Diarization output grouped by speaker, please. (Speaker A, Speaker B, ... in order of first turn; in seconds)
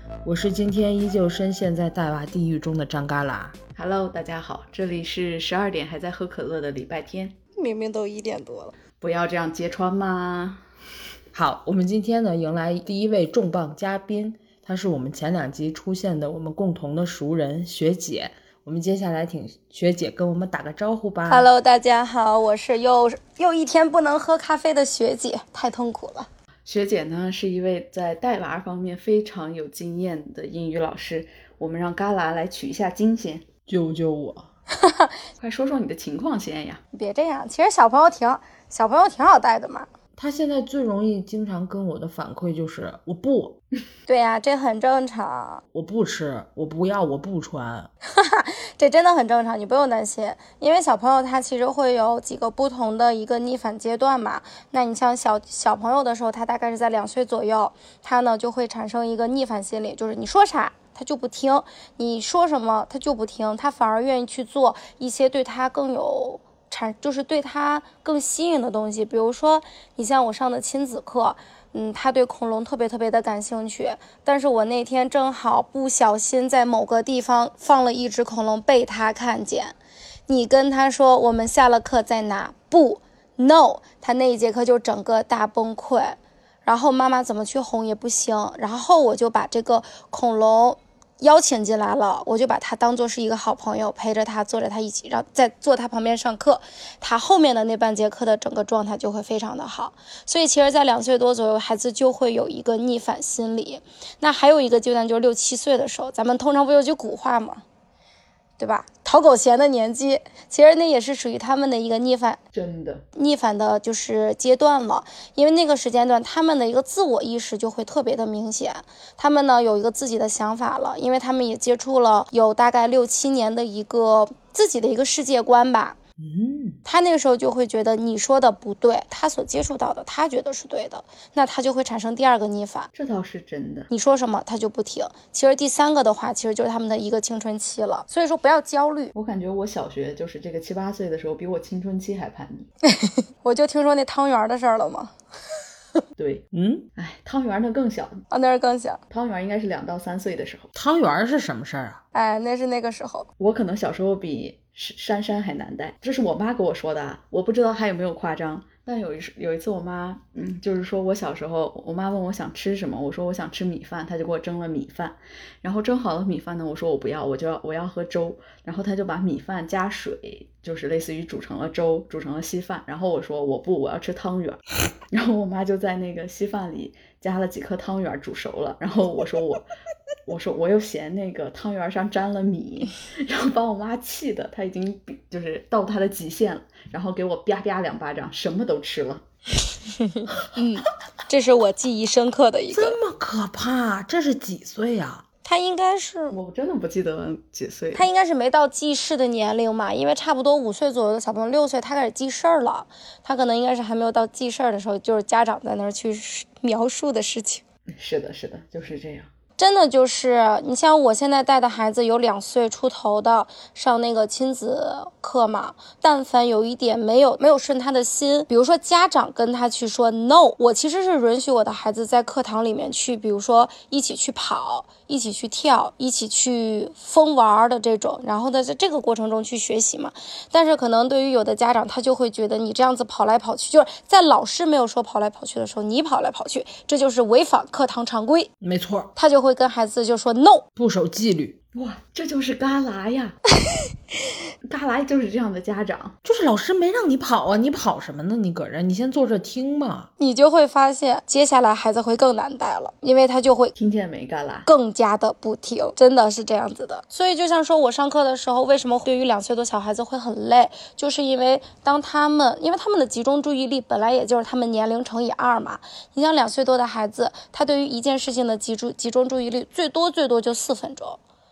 Speaker A: 0.2-3.6, 11.3-21.5, 33.7-34.5, 40.2-43.6, 45.7-47.9, 126.2-126.8, 146.5-146.9, 150.8-152.0, 192.7-195.2, 238.6-239.1, 240.8-241.6, 246.2-250.1
Speaker B: 3.8-7.4, 9.0-10.6, 26.6-33.5, 35.4-36.8, 112.5-113.0, 132.9-133.9, 139.2-142.7, 146.2-146.4, 147.0-148.3, 149.1-150.7, 153.4-179.7, 180.3-189.2, 196.3-198.1, 208.0-209.3, 241.7-243.4, 244.6-246.2, 253.8-254.7
Speaker C: 7.6-8.7, 21.3-26.3, 34.8-35.1, 36.9-39.9, 44.1-45.6, 48.0-79.8, 80.3-107.6, 108.6-112.4, 113.2-126.0, 126.8-132.9, 133.9-139.1, 142.8-145.1, 148.3-149.0, 152.1-153.3, 190.0-193.0, 195.4-196.4, 197.9-207.6, 209.6-238.5, 239.2-240.7, 250.2-253.7, 254.7-271.2